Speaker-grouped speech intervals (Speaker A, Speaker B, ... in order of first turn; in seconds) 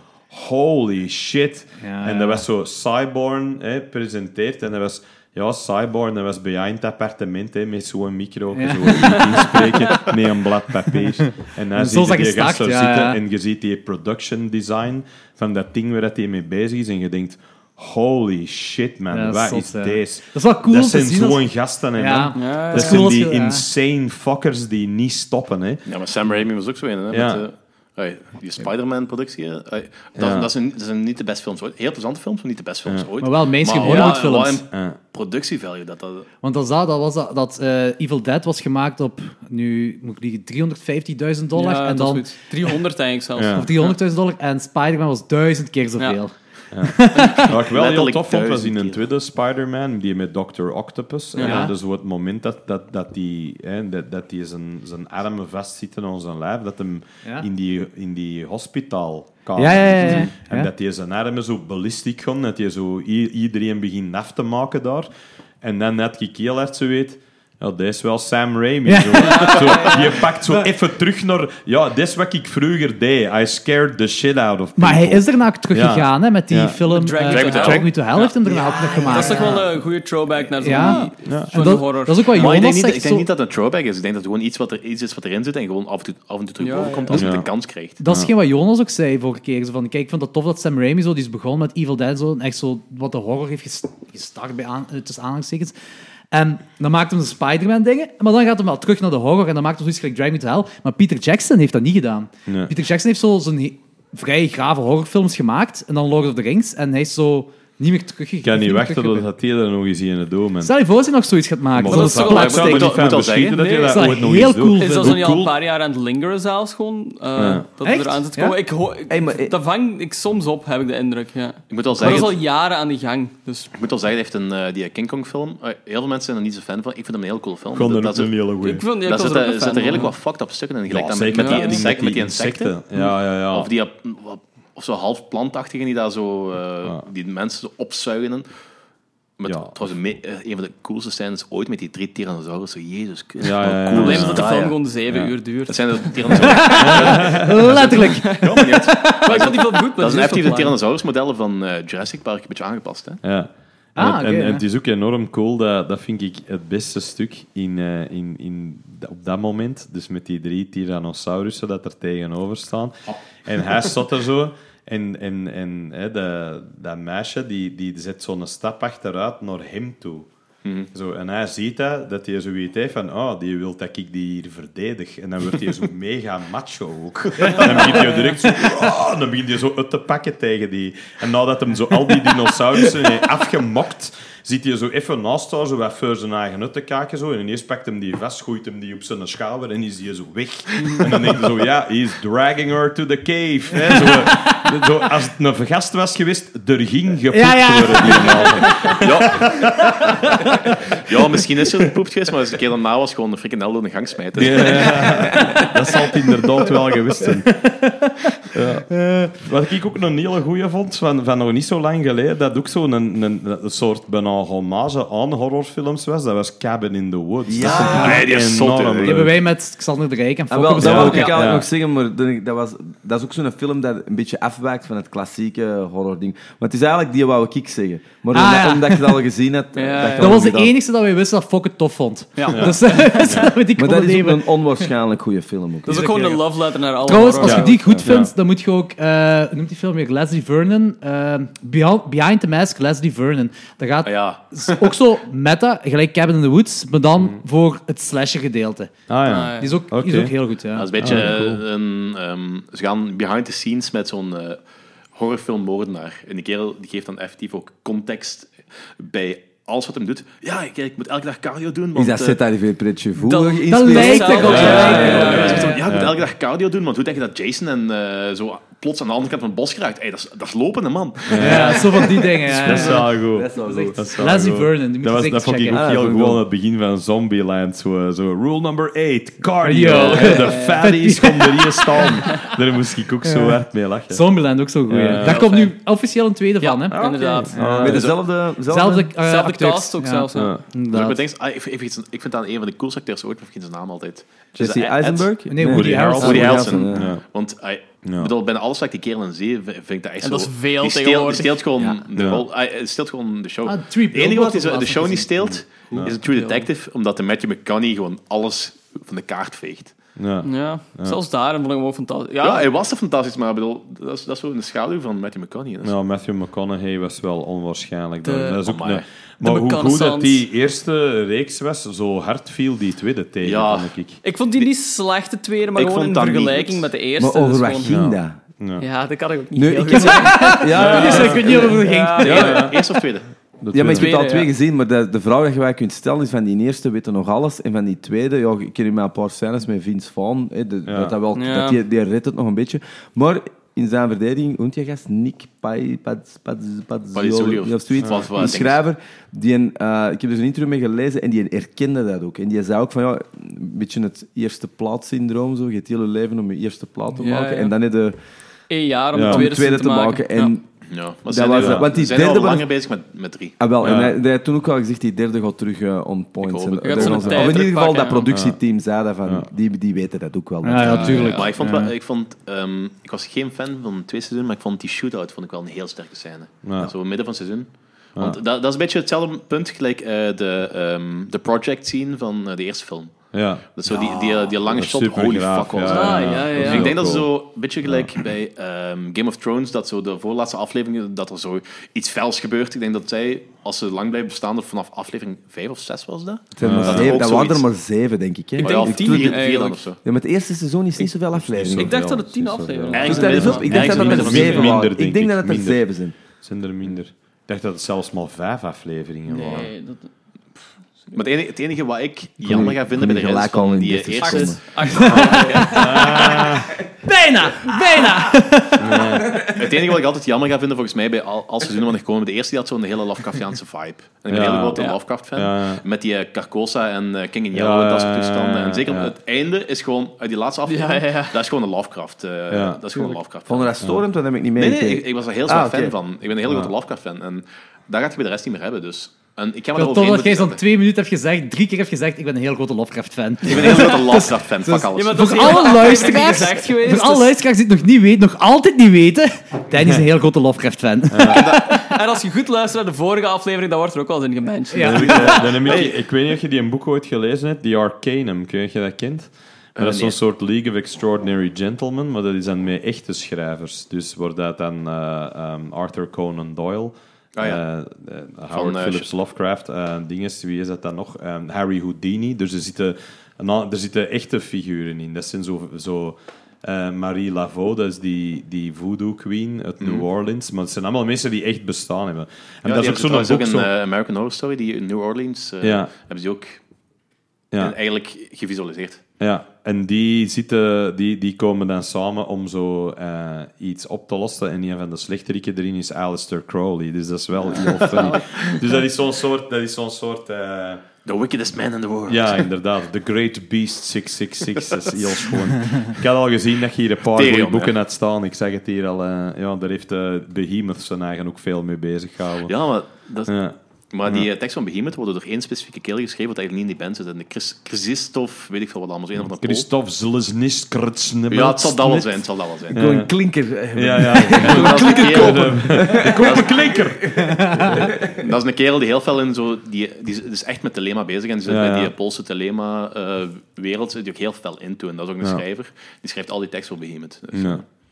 Speaker A: 0.3-25.8, 27.1-27.4, 30.2-30.5, 34.7-35.0, 43.4-43.7, 46.7-65.1, 65.6-76.9, 81.2-81.6, 87.1-87.5, 88.0-88.3, 102.5-102.7, 108.4-110.7, 111.8-115.5, 117.4-117.6, 127.7-128.8, 130.9-133.7, 139.5-139.7, 143.4-144.5, 146.3-148.0, 153.2-170.3, 170.9-200.3, 204.3-207.5, 208.5-219.3, 220.8-221.6, 232.5-233.5, 237.4-238.3, 249.1-250.3, 251.0-251.6, 264.4-266.1, 271.3-284.2, 284.9-285.5, 287.3-288.1, 290.3-290.6, 295.6-297.2, 298.1-298.3, 302.1-302.4, 305.4-306.2, 310.2-311.2, 315.8-324.2, 327.9-328.9, 330.8-331.4, 332.2-332.8, 333.6-334.2, 340.9-341.1, 348.0-348.3, 359.1-359.4, 361.6-361.9, 363.8-364.1, 368.3-368.6, 370.8-371.3, 376.6-376.9, 383.3-387.3, 396.6-397.3, 401.5-405.8, 406.4-409.7, 415.6-416.7, 418.8-419.4, 424.3-424.8, 425.3-425.8, 427.5-429.1, 432.5-432.8, 436.4-436.7, 451.1-451.4, 454.8-483.7, 485.6-485.9, 489.2-500.8, 502.1-512.5, 513.2-513.5, 519.4-523.1, 523.7-527.9, 531.5-531.9, 537.3-537.6
Speaker B: 1.8-2.4, 8.5-9.6, 11.7-13.2, 19.1-21.4, 21.9-23.6, 33.2-34.6, 36.4-42.8, 43.5-47.5, 51.4-51.7, 59.6-60.7, 68.8-69.8, 74.8-79.6, 80.6-83.3, 88.0-95.7, 96.3-109.3, 110.6-113.3, 113.8-115.2, 117.8-118.5, 146.4-149.2, 153.9-154.6, 177.4-178.3, 193.7-194.7, 197.3-199.1, 200.0-200.7, 205.3-205.7, 207.2-208.3, 209.0-209.3, 217.7-218.2, 219.0-221.4, 228.3-229.2, 230.2-234.5, 235.9-236.4, 237.0-248.9, 249.6-250.9, 263.7-265.8, 271.4-275.8, 279.6-282.4, 283.2-287.0, 287.5-288.1, 288.7-291.2, 295.5-296.7, 303.6-305.3, 329.9-332.7, 370.6-371.9, 415.6-416.1, 417.0-419.0, 439.8-451.8, 454.7-455.4, 527.4-527.8
Speaker C: 22.3-23.1, 33.8-34.2, 41.5-43.9, 51.4-51.7, 60.0-60.3, 69.2-70.2, 76.9-82.5, 86.6-87.3, 111.9-112.8, 113.5-114.2, 114.7-123.7, 128.6-130.1, 131.3-131.9, 143.9-150.8, 229.7-230.4, 232.5-233.4, 235.8-238.0, 249.2-249.8, 263.1-265.8, 279.9-280.9, 282.2-282.5, 285.1-285.7, 286.6-287.6, 289.1-290.6, 300.2-301.6, 306.2-306.6, 310.4-312.6, 318.2-318.6, 319.4-320.4, 324.2-327.9, 328.8-332.7, 333.9-334.5, 341.3-341.8, 357.2-357.7, 358.7-360.5, 366.8-368.3, 385.8-386.9, 398.6-399.8, 401.7-404.8, 409.3-410.1, 414.2-416.2, 430.7-431.4, 444.9-447.3, 451.5-455.9
Speaker D: 25.9-36.3, 47.5-49.0, 77.3-77.9, 78.7-79.6, 82.3-88.0, 112.2-113.6, 121.7-122.4, 123.7-128.3, 129.0-132.8, 133.5-138.5, 139.4-144.8, 145.7-147.4, 148.3-153.2, 170.6-170.9, 199.0-199.5, 201.0-205.1, 217.6-219.2, 244.0-244.9, 250.8-254.6, 255.1-262.4, 264.8-271.9, 290.9-295.3, 296.2-309.9, 312.4-315.9, 318.6-319.1, 323.4-323.9, 325.7-326.9, 332.2-333.2, 347.1-348.8, 360.9-363.6, 366.4-367.6, 370.8-397.6, 398.6-400.0, 402.9-404.8, 411.1-415.6, 419.5-433.7, 434.6-440.6, 443.4-445.9, 451.3-451.6, 455.6-455.9, 459.8-460.2, 467.3-467.6, 468.5-469.1, 479.8-480.1, 482.6-486.6, 487.6-489.0, 497.4-498.2, 501.0-502.5, 504.5-505.4, 507.1-507.7, 512.5-513.3, 513.9-519.7, 521.3-522.8, 524.3-526.7, 527.9-537.6
Speaker E: 119.1-119.5, 122.0-122.3, 217.4-218.3, 220.5-230.7, 233.8-236.2, 237.1-238.1, 261.9-265.6, 272.6-274.1, 275.7-276.4, 286.9-289.1, 294.6-297.1, 327.2-328.4, 329.5-332.6, 333.7-358.1, 359.2-360.6, 361.3-362.7, 363.6-371.4, 396.6-402.0, 402.6-406.1, 412.4-415.3, 419.2-419.8, 433.4-435.9, 522.7-528.2